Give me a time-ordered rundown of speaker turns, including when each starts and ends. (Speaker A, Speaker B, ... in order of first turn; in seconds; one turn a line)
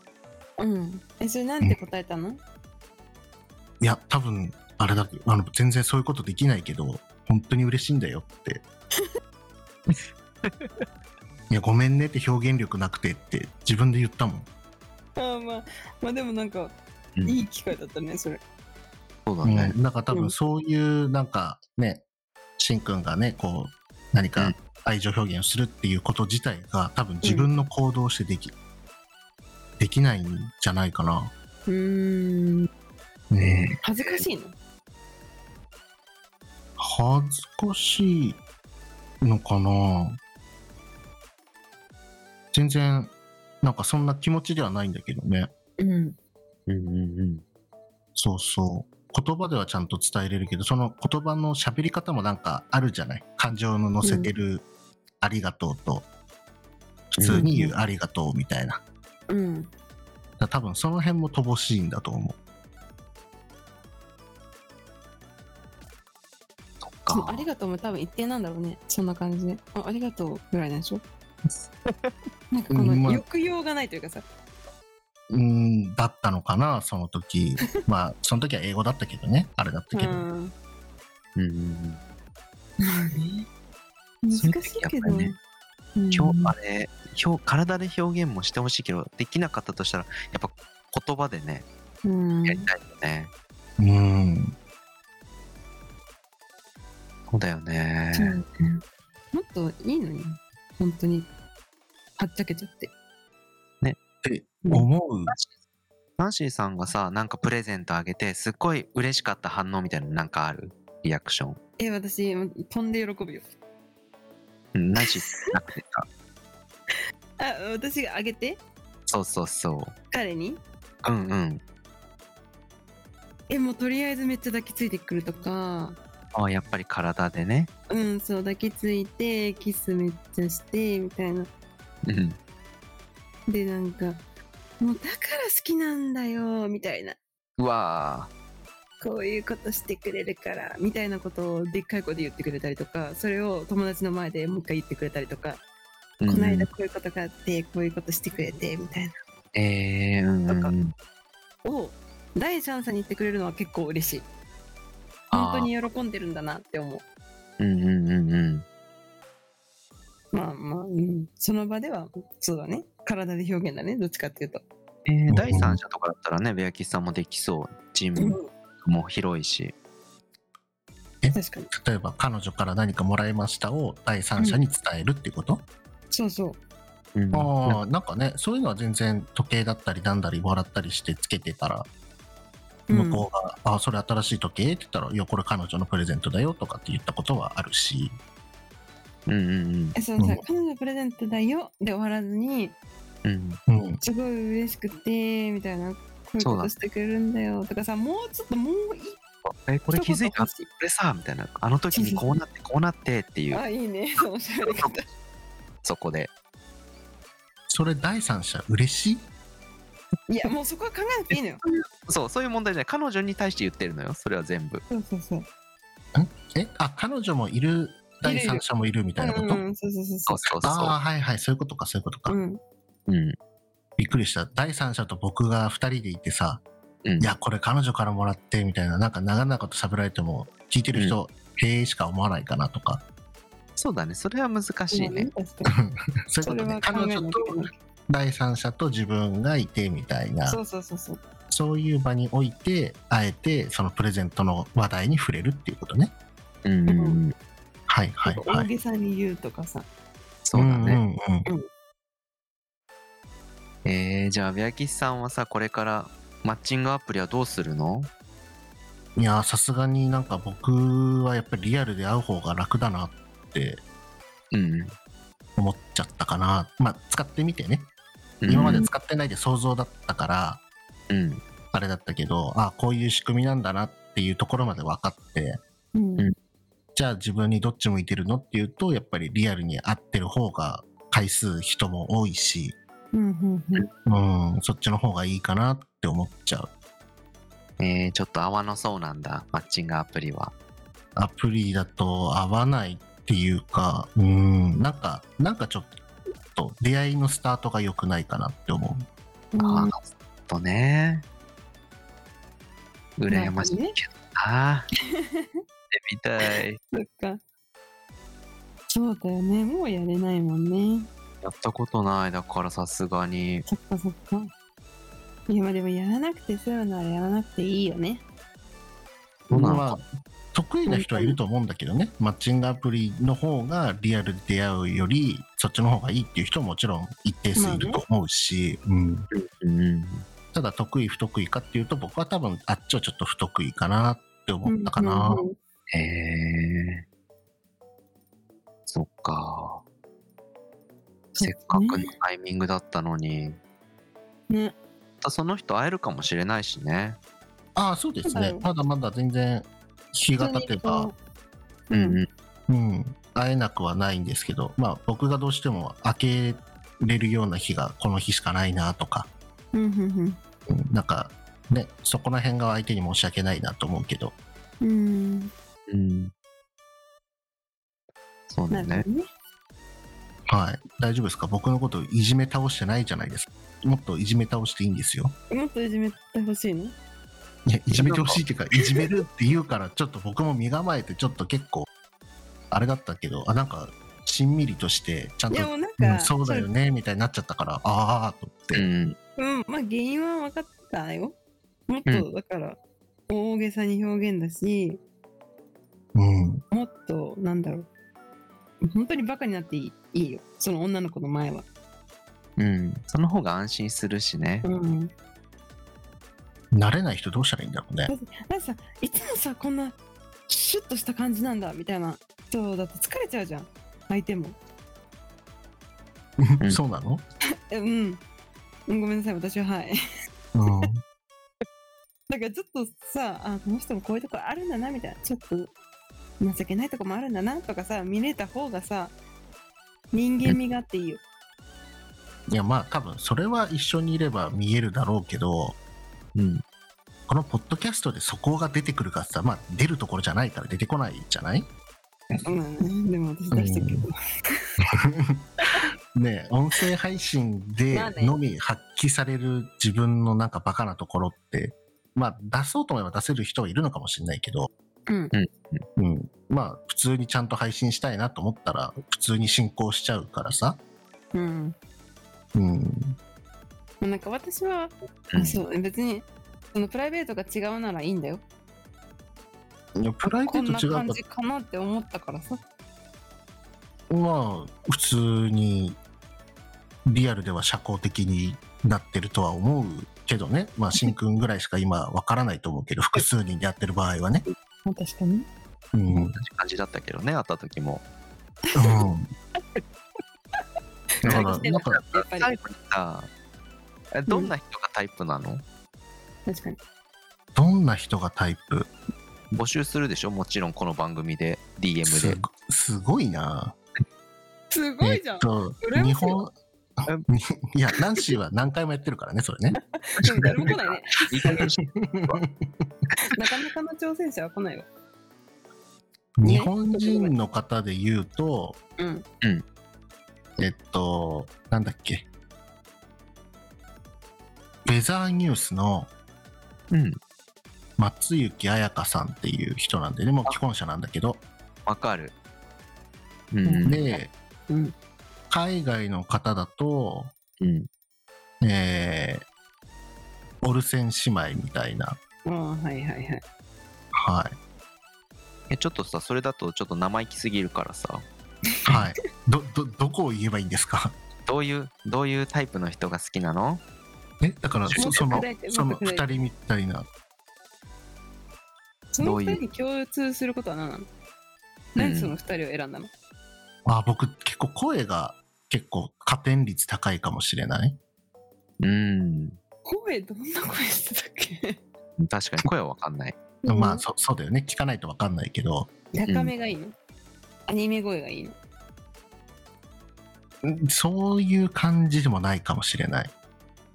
Speaker A: 0.6-2.4
Speaker B: 3.8-8.6
Speaker C: 9.9-10.7
Speaker B: 11.5-14.5
Speaker A: 15.2-18.4
Speaker C: 19.3-19.7
Speaker B: 19.4-22.0
Speaker B: 22.6-28.5
Speaker A: 27.2-27.5
Speaker B: 29.8-31.3
Speaker A: 31.7-32.7
Speaker B: 33.3-33.7
Speaker C: 33.4-34.2
Speaker A: 33.8-34.5
Speaker B: 36.8-38.4
Speaker B: 39.2-40.2
Speaker B: 42.5-45.5
Speaker A: 45.8-46.2
Speaker C: 46.7-47.4
Speaker B: 48.2-54.7
Speaker A: 54.0-54.3
Speaker B: 55.2-56.1
Speaker B: 57.1-58.8
Speaker C: 57.2-57.5
Speaker A: 57.4-57.7
Speaker A: 59.3-59.7
Speaker B: 60.4-62.4
Speaker C: 66.8-67.5
Speaker A: 67.1-71.0
Speaker C: 71.9-72.1
Speaker A: 72.5-74.3
Speaker B: 72.7-73.2
Speaker B: 75.3-80.2
Speaker A: 79.9-80.5
Speaker C: 81.4-82.0
Speaker A: 82.8-83.5
Speaker A: 84.2-85.4
Speaker C: 84.3-85.3
Speaker A: 86.0-86.5
Speaker C: 86.1-91.7
Speaker A: 92.0-92.7
Speaker C: 92.5-93.3
Speaker B: 93.8-94.5
Speaker C: 97.3-98.4
Speaker A: 98.1-101.3
Speaker A: 102.2-102.9
Speaker B: 104.2-105.3
Speaker C: 106.2-111.6
Speaker A: 111.8-113.5
Speaker C: 114.8-116.1
Speaker A: 115.0-115.5
Speaker A: 117.4-118.6
Speaker C: 119.1-120.0
Speaker A: 120.1-120.6
Speaker C: 121.0-121.6
Speaker A: 123.5-126.0
Speaker C: 126.3-127.7
Speaker A: 127.9-131.5
Speaker C: 132.1-132.4
Speaker A: 133.5-134.2
Speaker A: 134.8-137.2
Speaker C: 137.6-138.3
Speaker A: 139.0-145.6
Speaker C: 146.2-146.7
Speaker A: 146.3-149.2
Speaker C: 149.6-150.9
Speaker A: 150.5-150.7
Speaker A: 151.7-154.3
Speaker C: 155.3-155.7
Speaker A: 155.3-157.0
Speaker C: 157.6-158.7
Speaker A: 160.3-164.6
Speaker C: 165.1-169.7
Speaker B: 165.3-165.8
Speaker A: 168.2-168.5
Speaker B: 171.2-175.7
Speaker A: 171.3-171.7
Speaker A: 176.1-176.6
Speaker C: 177.2-177.8
Speaker B: 177.3-181.9
Speaker A: 182.9-183.2
Speaker B: 182.9-188.2
Speaker C: 189.3-190.0
Speaker A: 190.0-192.8
Speaker C: 193.2-193.6
Speaker B: 193.7-194.0
Speaker A: 194.0-199.2
Speaker C: 196.4-196.7
Speaker C: 199.5-203.6
Speaker A: 199.9-200.7
Speaker A: 201.9-202.3
Speaker A: 203.5-205.0
Speaker C: 204.7-204.9
Speaker C: 205.8-206.3
Speaker B: 207.7-209.3
Speaker A: 210.3-211.6
Speaker C: 211.6-214.8
Speaker A: 214.9-215.5
Speaker B: 216.2-219.6
Speaker A: 218.2-218.6
Speaker A: 219.2-220.5
Speaker C: 220.3-220.9
Speaker B: 220.6-222.4
Speaker A: 222.3-222.6
Speaker C: 223.1-223.4
Speaker B: 224.0-226.6
Speaker C: 227.1-227.3
Speaker B: 227.2-233.0
Speaker C: 233.8-235.3
Speaker A: 234.9-235.8
Speaker B: 235.7-240.6
Speaker A: 236.4-237.7
Speaker A: 240.5-241.2
Speaker B: 241.5-246.1
Speaker C: 246.7-247.3
Speaker A: 246.9-247.2
Speaker B: 247.9-248.7
Speaker A: 248.2-249.9
Speaker C: 250.4-251.0
Speaker B: 250.5-251.5
Speaker C: 253.8-258.1
Speaker B: 259.2-263.8
Speaker C: 264.5-264.9
Speaker B: 265.6-267.9
Speaker C: 268.4-268.8
Speaker B: 268.5-270.6
Speaker A: 268.6-268.9
Speaker C: 271.1-271.4
Speaker B: 271.7-275.6
Speaker A: 275.9-276.3
Speaker B: 276.9-282.8
Speaker A: 283.1-283.9
Speaker B: 284.1-286.7
Speaker C: 287.8-290.5
Speaker B: 291.2-295.9
Speaker B: 296.5-299.1
Speaker A: 299.5-299.9
Speaker C: 299.6-301.2
Speaker C: 303.2-304.9
Speaker A: 303.3-303.9
Speaker A: 305.1-305.6
Speaker C: 305.9-306.8
Speaker A: 306.9-307.4
Speaker A: 308.9-311.1
Speaker C: 311.4-313.7
Speaker A: 313.7-314.5
Speaker A: 315.5-318.2
Speaker C: 319.5-320.0
Speaker B: 319.5-329.3
Speaker A: 320.9-321.4
Speaker A: 327.6-328.0
Speaker C: 329.3-330.2
Speaker B: 330.5-335.4
Speaker A: 334.7-335.6
Speaker C: 335.9-337.0
Speaker C: 338.9-339.8
Speaker C: 341.4-343.6
Speaker A: 341.4-342.1
Speaker C: 345.2-347.2
Speaker B: 347.8-351.1
Speaker A: 348.3-348.6
Speaker A: 350.4-351.1
Speaker A: 351.9-352.2
Speaker C: 351.9-352.3
Speaker B: 352.7-359.3
Speaker A: 359.7-360.4
Speaker B: 360.7-364.4
Speaker A: 364.8-365.5
Speaker C: 365.9-366.3
Speaker C: 368.5-369.1
Speaker A: 368.7-369.3
Speaker B: 370.5-375.4
Speaker A: 375.5-377.0
Speaker B: 377.7-381.9
Speaker C: 377.9-378.4
Speaker B: 382.7-388.9
Speaker A: 385.5-386.7
Speaker C: 388.7-389.2
Speaker A: 389.4-391.4
Speaker A: 391.9-395.0
Speaker B: 396.1-396.6
Speaker A: 396.7-397.9
Speaker A: 398.8-401.7
Speaker C: 402.6-404.6
Speaker A: 404.6-405.1
Speaker B: 406.7-408.1
Speaker A: 408.1-410.0
Speaker A: 410.5-414.6
Speaker B: 416.4-417.2
Speaker A: 417.7-418.2
Speaker A: 418.9-419.9
Speaker B: 420.5-421.0
Speaker A: 422.3-425.7
Speaker A: 426.4-429.1
Speaker A: 430.1-431.2
Speaker B: 432.5-435.8
Speaker C: 436.4-436.6
Speaker B: 437.3-441.7
Speaker A: 442.4-444.6
Speaker B: 443.5-444.1
Speaker B: 445.0-445.5
Speaker B: 446.1-454.7
Speaker A: 447.9-448.4
Speaker A: 455.1-455.3
Speaker C: 455.3-455.9
Speaker B: 456.0-460.8
Speaker A: 461.3-461.8
Speaker B: 462.6-463.2
Speaker A: 464.0-468.4
Speaker C: 465.3-465.6
Speaker B: 470.0-471.2
Speaker A: 470.4-472.6
Speaker B: 474.1-476.0
Speaker B: 477.1-484.4
Speaker A: 484.9-485.5
Speaker B: 485.9-486.4
Speaker C: 486.3-488.0
Speaker A: 488.7-489.0
Speaker B: 488.8-489.3
Speaker A: 491.2-492.5
Speaker B: 491.2-492.0
Speaker C: 491.2-493.3
Speaker C: 494.1-495.6
Speaker A: 496.5-496.8
Speaker B: 497.6-498.9
Speaker C: 499.5-502.4
Speaker B: 502.1-503.8
Speaker A: 504.7-506.4
Speaker B: 505.0-509.8
Speaker A: 509.8-511.7
Speaker B: 510.4-510.7
Speaker C: 510.6-512.4
Speaker B: 511.9-512.9
Speaker A: 513.3-514.9
Speaker B: 516.4-518.8
Speaker A: 516.4-517.3
Speaker A: 519.0-519.2
Speaker B: 520.6-522.3
Speaker B: 524.9-526.1
Speaker C: 526.9-527.2
Speaker B: 528.0-531.4
Speaker C: 531.9-532.3
Speaker C: 533.5-534.0
Speaker A: 533.6-535.0
Speaker B: 533.9-534.3
Speaker B: 535.5-537.3
Speaker C: 537.6-537.9
Speaker B: 538.6-539.5
Speaker B: 540.6-542.2
Speaker A: 542.5-543.4
Speaker B: 544.1-544.6
Speaker C: 545.7-548.3
Speaker B: 548.9-551.2
Speaker C: 551.5-553.8
Speaker B: 554.4-557.1
Speaker C: 554.9-555.2
Speaker A: 555.0-556.3
Speaker A: 559.1-561.1
Speaker C: 559.2-559.6
Speaker A: 562.0-563.1
Speaker C: 562.0-562.4
Speaker B: 563.9-568.0
Speaker C: 568.8-569.6
Speaker A: 569.9-571.8
Speaker C: 572.2-573.4
Speaker A: 573.6-574.0
Speaker B: 573.7-575.9
Speaker A: 576.1-577.0
Speaker C: 576.3-576.5
Speaker A: 577.7-578.6
Speaker B: 580.6-583.3